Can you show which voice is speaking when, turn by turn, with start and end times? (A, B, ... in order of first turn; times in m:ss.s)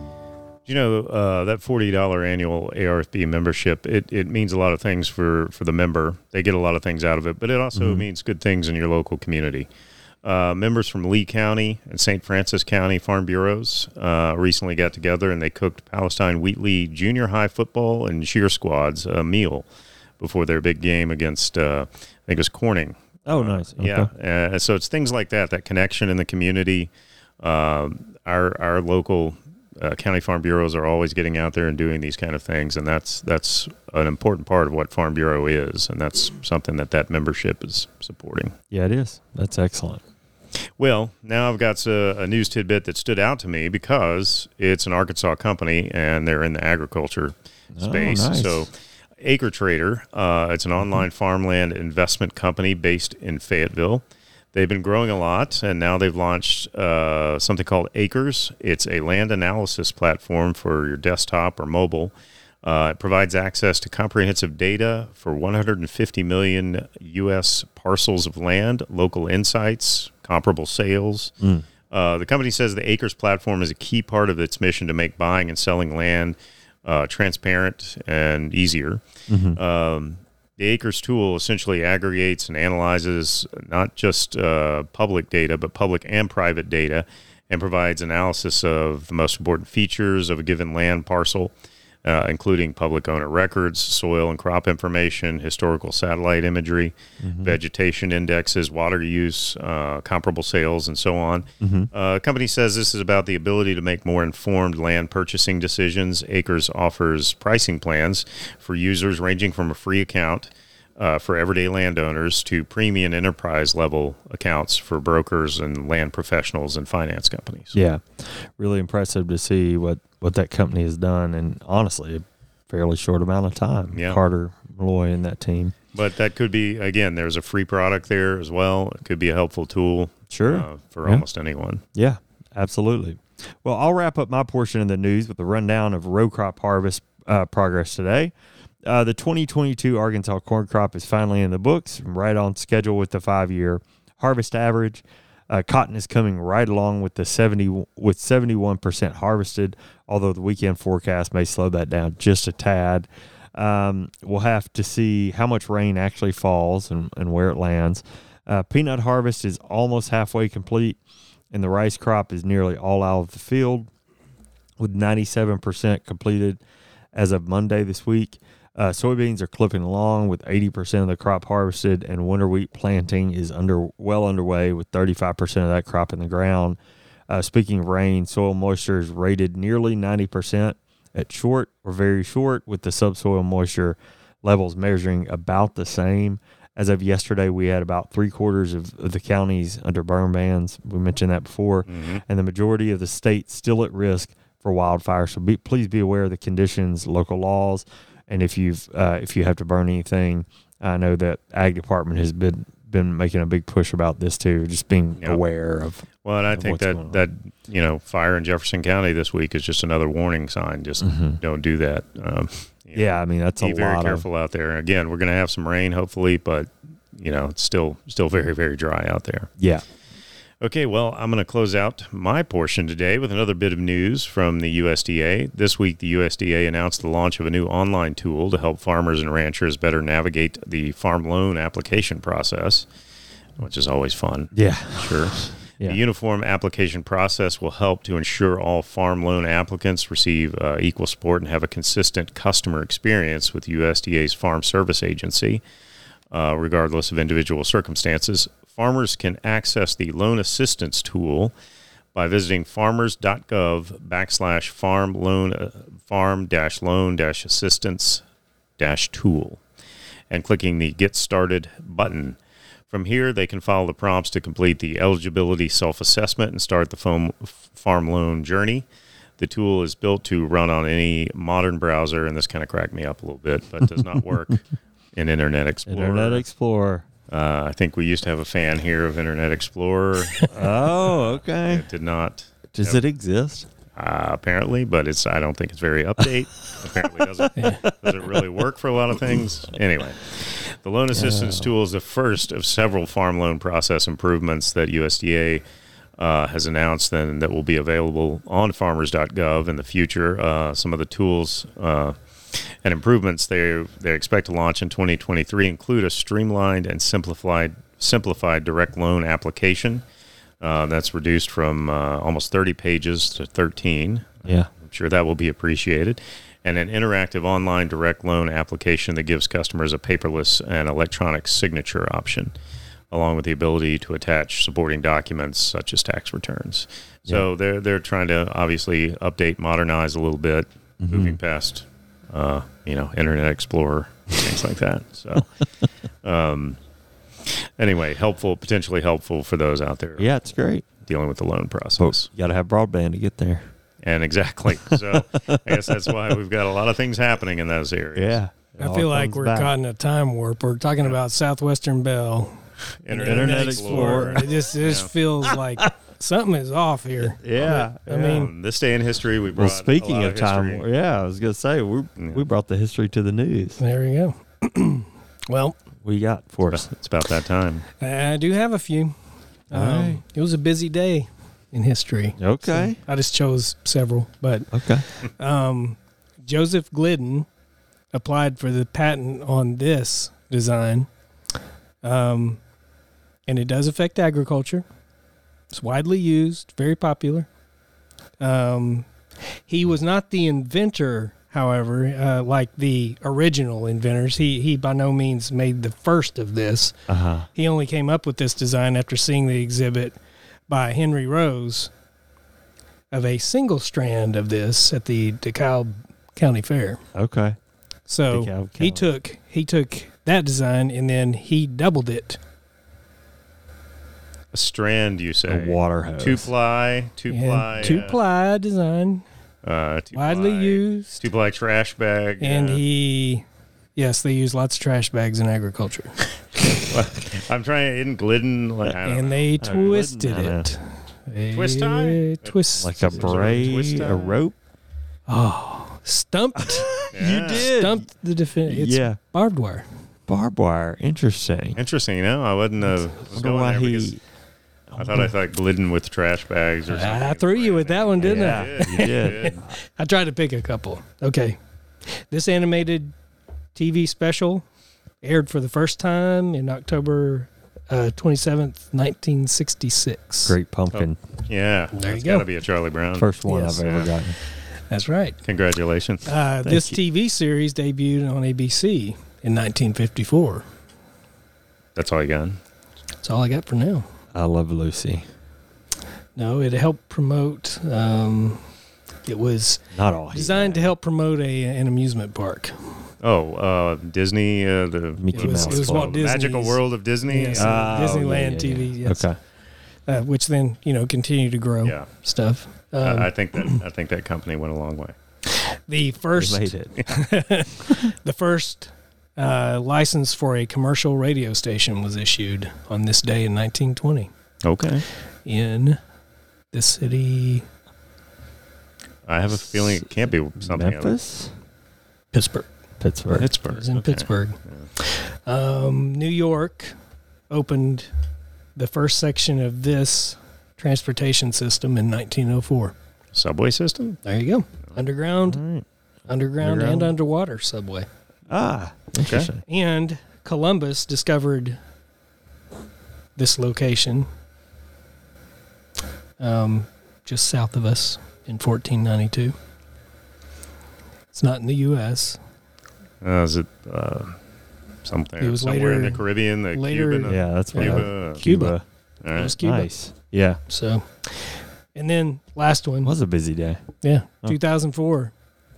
0:00.6-0:09.7 A
0:07.7-0:08.1 B
0:10.2-0:19.7 A
0:20.2-0:26.9 A
0:23.2-0:24.1 B
0:27.4-0:38.6 A
0:38.7-0:40.0 B
0:40.8-0:54.0 A
0:47.8-0:48.7 B
0:54.5-1:02.1 A
1:02.6-1:11.3 A
1:11.4-1:11.6 B
1:11.9-1:19.0 A
1:19.3-1:19.6 B
1:19.6-1:31.5 A
1:32.0-1:57.8 A
1:37.2-1:37.6 B
1:41.6-1:41.9 B
1:57.7-2:05.7 B
2:03.9-2:04.2 A
2:05.9-2:11.8 A
2:10.3-2:11.2 B
2:11.9-2:18.3 B
2:18.8-2:41.0 B
2:41.5-2:43.9 B
2:44.8-2:46.6 B
2:47.1-3:27.2 B
3:11.9-3:12.2 A
3:26.2-3:39.5 A
3:31.0-3:31.4 B
3:32.9-3:34.2 B
3:39.6-3:39.8 B
3:40.6-3:52.9 A
3:53.6-4:05.6 A
3:54.5-3:56.0 B
4:06.3-4:11.5 A
4:12.1-4:18.2 A
4:18.8-4:19.6 A
4:20.3-4:22.4 A
4:22.9-4:28.9 A
4:29.4-4:34.6 A
4:35.1-4:36.4 A
4:35.9-4:37.0 B
4:37.3-4:43.0 A
4:40.5-4:41.8 B
4:42.7-4:43.7 B
4:43.9-4:55.6 A
4:47.6-4:47.8 C
4:47.6-4:48.4 B
4:51.1-4:51.7 B
4:56.2-5:10.0 A
5:10.6-5:22.5 A
5:23.1-5:35.5 A
5:31.0-5:31.4 B
5:36.2-5:36.8 A
5:37.4-5:40.3 A
5:40.2-5:40.8 B
5:41.0-5:42.2 A
5:42.0-5:43.6 B
5:44.0-5:48.4 A
5:44.9-5:46.1 B
5:48.2-5:49.7 B
5:48.8-5:58.5 C
5:53.0-5:55.1 A
5:53.2-5:54.5 B
5:57.4-5:58.4 B
5:57.8-6:00.9 A
5:59.6-6:03.8 B
6:02.2-6:02.4 A
6:03.8-6:05.8 C
6:06.0-6:06.9 B
6:06.7-6:07.8 A
6:08.0-6:09.1 C
6:09.7-6:17.5 C
6:09.7-6:10.2 B
6:12.4-6:13.0 B
6:14.7-6:15.0 B
6:18.1-6:21.1 C
6:22.0-6:22.6 C
6:23.5-6:24.8 C
6:25.7-6:27.5 C
6:28.4-6:29.1 C
6:29.7-6:37.0 C
6:37.1-6:37.5 B
6:37.5-6:40.2 C
6:40.7-6:41.9 C
6:43.1-6:47.0 C
6:47.1-6:47.6 B
6:48.1-6:52.4 C
6:48.3-6:49.1 B
6:54.5-6:58.2 A
6:55.5-6:56.5 B
6:57.3-6:59.2 C
6:59.6-7:02.8 A
7:00.1-7:01.2 C
7:02.4-7:03.4 C
7:04.0-7:06.2 C
7:06.7-7:09.8 A
7:09.0-7:13.4 C
7:09.6-7:10.7 B
7:11.5-7:14.4 A
7:12.8-7:14.5 B
7:15.3-7:19.8 C
7:16.6-7:18.0 B
7:17.1-7:17.7 A
7:18.7-7:19.2 B
7:20.3-7:21.8 B
7:21.8-7:24.1 A
7:23.3-7:24.2 B
7:24.9-7:29.6 A
7:26.9-7:31.6 C
7:28.2-7:29.6 B
7:32.2-7:33.1 C
7:33.7-7:34.6 C
7:35.2-7:40.6 C
7:40.4-7:41.2 B
7:40.9-7:44.1 A
7:41.9-7:42.4 C
7:43.2-7:44.4 B
7:43.5-7:43.8 C
7:44.9-7:45.4 C
7:45.4-7:46.3 A
7:46.2-7:50.6 C
7:46.6-7:47.0 B
7:52.0-7:52.6 A
7:53.2-7:54.0 C
7:54.3-7:55.2 B
7:56.4-7:58.6 C
7:59.2-8:02.7 C
7:59.9-8:00.9 B
8:03.2-8:08.1 A
8:05.2-8:06.2 B
8:05.3-8:09.3 C
8:07.5-8:09.4 B
8:10.1-8:13.8 C
8:13.0-8:15.2 A
8:15.5-8:24.3 C
8:16.3-8:17.0 B
8:24.6-8:25.0 A
8:25.4-8:26.0 C
8:26.7-8:27.6 C
8:29.2-8:31.2 A
8:30.6-8:31.5 B
8:32.3-8:32.7 C
8:33.0-8:33.5 B
8:33.3-8:34.8 A
8:33.7-8:36.9 C
8:37.5-8:38.1 C
8:38.8-8:42.9 C
8:43.3-8:44.2 A
8:44.2-8:45.6 C
8:45.4-8:45.8 B
8:46.3-8:48.1 C
8:46.6-8:47.1 B
8:48.5-8:49.6 B
8:49.2-8:49.5 A
8:49.7-8:51.8 C
8:53.4-8:54.3 C
8:56.4-8:59.5 C
9:01.3-9:02.4 C
9:03.2-9:04.4 A
9:05.0-9:08.4 A
9:05.4-9:08.7 C
9:07.2-9:08.8 B
9:09.2-9:09.6 A
9:09.3-9:09.9 C
9:09.6-9:10.6 B
9:10.7-9:13.1 C
9:13.0-9:13.8 B
9:14.0-9:15.3 C